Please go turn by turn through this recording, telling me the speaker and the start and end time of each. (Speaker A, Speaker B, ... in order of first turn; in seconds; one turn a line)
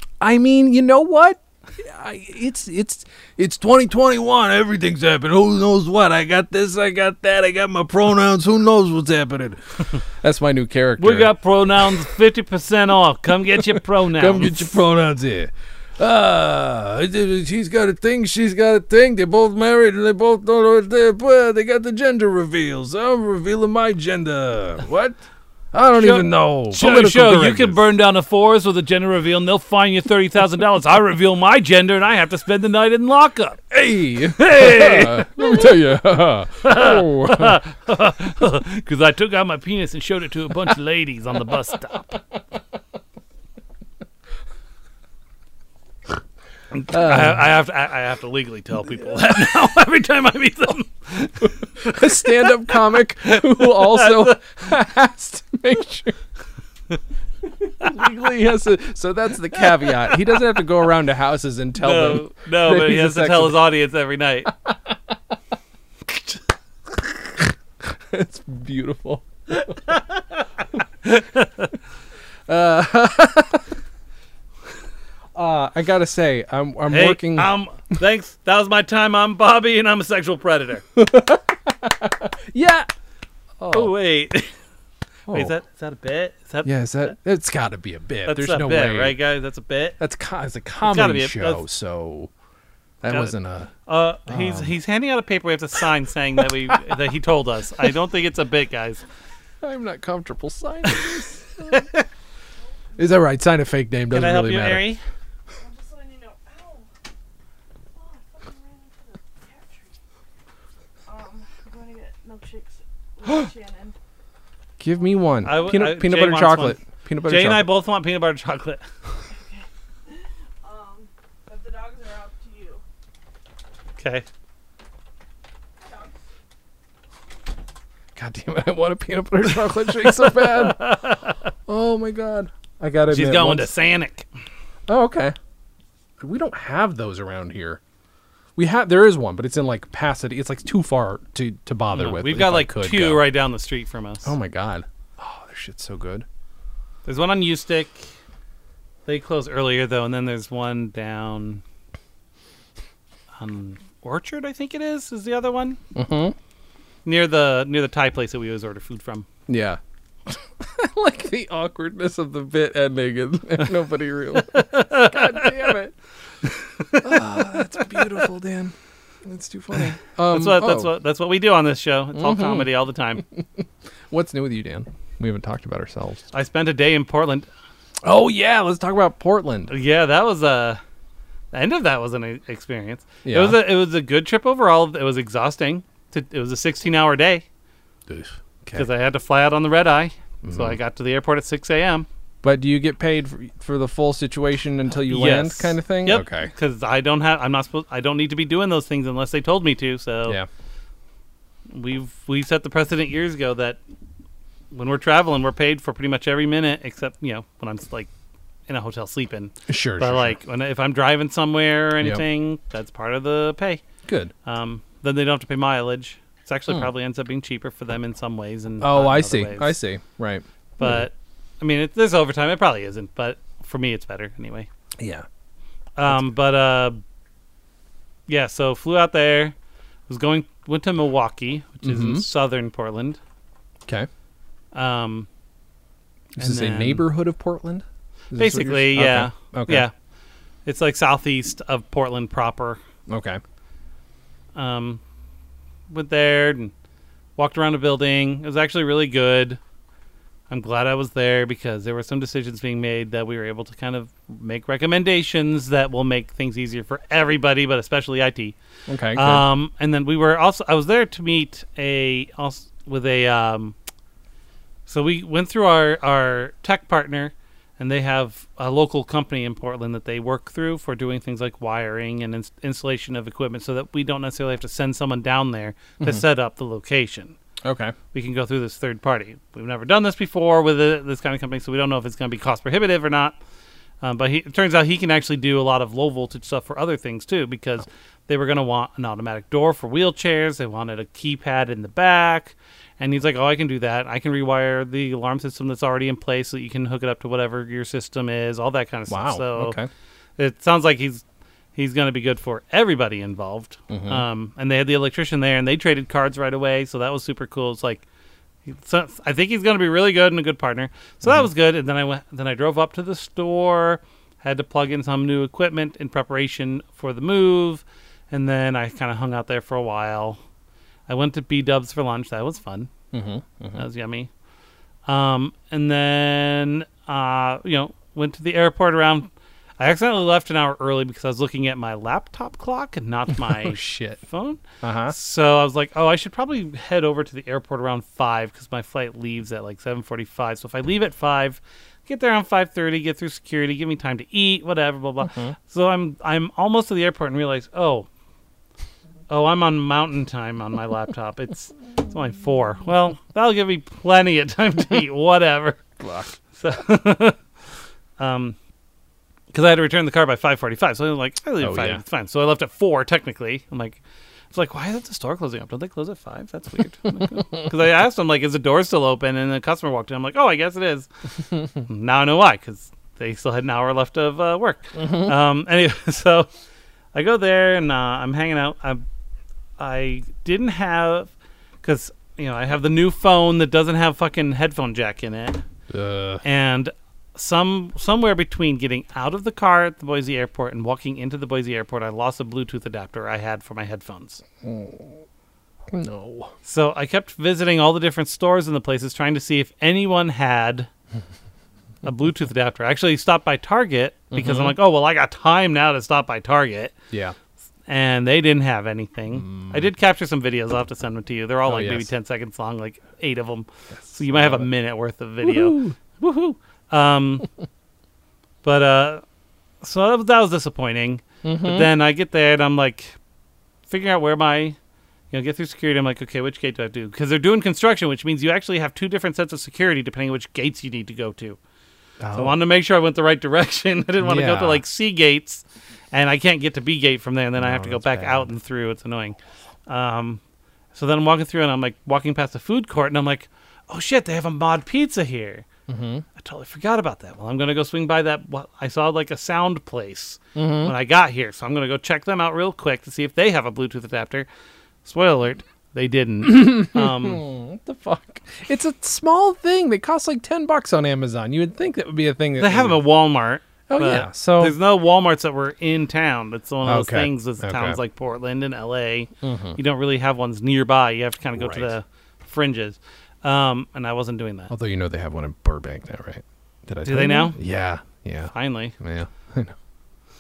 Speaker A: 0.2-12.1
Speaker B: 11.0-14.8
Speaker A: 13.6-25.2
Speaker A: 25.7-27.8
Speaker B: 26.0-33.6
Speaker A: 33.7-37.6
Speaker B: 34.4-35.7
Speaker B: 36.6-42.1
Speaker B: 46.7-52.5
Speaker A: 46.9-47.5
Speaker A: 51.8-56.2
Speaker B: 53.2-54.4
Speaker A: 57.5-63.6
Speaker B: 59.8-60.4
Speaker B: 61.8-64.5
Speaker A: 64.7-65.1
Speaker A: 67.4-69.8
Speaker B: 69.5-70.4
Speaker B: 71.0-71.7
Speaker A: 72.5-73.7
Speaker A: 75.3-77.5
Speaker B: 76.9-80.8
Speaker A: 81.0-82.9
Speaker A: 83.6-84.0
Speaker B: 83.7-84.5
Speaker A: 85.3-85.5
Speaker B: 85.3-86.7
Speaker A: 86.6-89.2
Speaker B: 88.3-90.0
Speaker A: 90.0-92.3
Speaker B: 90.8-91.7
Speaker A: 93.0-93.7
Speaker B: 93.1-93.3
Speaker B: 93.9-99.0
Speaker A: 94.3-94.8
Speaker A: 99.6-101.8
Speaker B: 101.7-102.0
Speaker A: 103.0-104.9
Speaker B: 104.1-105.0
Speaker C: 105.6-106.9
Speaker C: 107.9-110.0
Speaker C: 111.1-114.0
Speaker A: 114.8-117.7
Speaker B: 115.4-118.8
Speaker C: 119.3-122.8
Speaker B: 124.0-124.3
Speaker C: 125.8-126.1
Speaker A: 128.2-133.7
Speaker B: 129.7-131.4
Speaker B: 133.1-134.3
Speaker A: 134.9-135.4
Speaker A: 136.2-137.8
Speaker A: 138.6-143.2
Speaker B: 141.9-144.3
Speaker A: 144.2-146.3
Speaker B: 147.1-148.1
Speaker B: 149.1-151.6
Speaker B: 153.4-155.8
Speaker A: 155.9-156.4
Speaker B: 157.1-159.3
Speaker A: 159.5-165.9
Speaker B: 164.5-165.8
Speaker B: 166.7-168.2
Speaker A: 167.0-170.9
Speaker B: 170.3-173.2
Speaker A: 172.2-172.7
Speaker A: 173.2-176.2
Speaker B: 176.3-177.5
Speaker A: 178.0-179.7
Speaker B: 179.7-180.8
Speaker B: 181.5-187.4
Speaker A: 183.2-183.6
Speaker A: 188.1-188.9
Speaker B: 188.7-192.1
Speaker A: 190.4-190.8
Speaker A: 192.4-196.5
Speaker B: 195.1-200.4
Speaker B: 201.7-203.8
Speaker B: 204.7-208.1
Speaker B: 208.7-213.8
Speaker A: 209.7-210.4
Speaker A: 214.1-214.3
Speaker B: 214.4-219.8
Speaker A: 218.8-221.1
Speaker B: 220.8-224.7
Speaker A: 225.0-225.3
Speaker B: 226.0-227.0
Speaker B: 228.3-229.6
Speaker B: 230.1-233.2
Speaker A: 231.8-232.2
Speaker B: 234.7-235.3
Speaker A: 236.4-239.9
Speaker B: 236.4-237.1
Speaker B: 238.3-239.9
Speaker B: 240.7-242.8
Speaker A: 243.1-243.4
Speaker B: 244.6-245.0
Speaker B: 245.9-246.7
Speaker B: 247.4-249.6
Speaker B: 250.5-258.6
Speaker A: 258.9-259.5
Speaker B: 259.1-263.8
Speaker B: 264.9-277.4
Speaker A: 277.6-277.9
Speaker B: 278.1-283.4
Speaker B: 284.0-299.8
Speaker A: 299.1-299.9
Speaker B: 300.4-301.2
Speaker B: 301.8-308.1
Speaker A: 303.9-304.2
Speaker B: 308.7-320.4
Speaker B: 321.1-322.9
Speaker A: 323.1-323.8
Speaker B: 323.8-324.3
Speaker B: 325.1-348.1
Speaker A: 333.4-334.2
Speaker A: 334.8-335.1
Speaker A: 345.3-345.6
Speaker B: 349.3-355.9
Speaker A: 356.0-356.4
Speaker B: 356.5-357.4
Speaker B: 358.2-358.6
Speaker B: 359.5-364.0
Speaker A: 361.6-362.0
Speaker B: 364.5-371.1
Speaker B: 371.8-376.5
Speaker A: 375.0-375.3
Speaker B: 377.1-379.0
Speaker B: 379.8-381.3
Speaker B: 381.8-385.6
Speaker A: 385.9-386.4
Speaker B: 386.4-394.4
Speaker A: 394.6-395.1
Speaker A: 395.9-396.5
Speaker B: 396.7-400.9
Speaker B: 402.0-406.9
Speaker A: 404.3-404.8
Speaker A: 407.1-407.4
Speaker B: 407.9-417.5
Speaker A: 409.4-409.9
Speaker A: 411.7-412.1
Speaker A: 414.2-414.7
Speaker A: 415.4-416.0
Speaker B: 418.6-419.2
Speaker B: 419.8-423.2
Speaker A: 421.4-421.9
Speaker B: 423.9-424.8
Speaker B: 425.3-431.6
Speaker A: 432.2-432.6
Speaker B: 432.3-440.4
Speaker A: 434.2-434.8
Speaker A: 437.6-438.5
Speaker B: 440.9-445.6
Speaker A: 445.9-446.2
Speaker B: 446.4-454.5
Speaker A: 450.6-450.9
Speaker B: 455.1-457.4
Speaker A: 456.4-463.0
Speaker B: 462.6-474.7
Speaker A: 463.9-464.8
Speaker A: 466.8-468.0
Speaker A: 469.4-469.8
Speaker A: 471.6-471.9
Speaker A: 474.7-479.7
Speaker B: 477.1-477.6
Speaker B: 478.5-478.9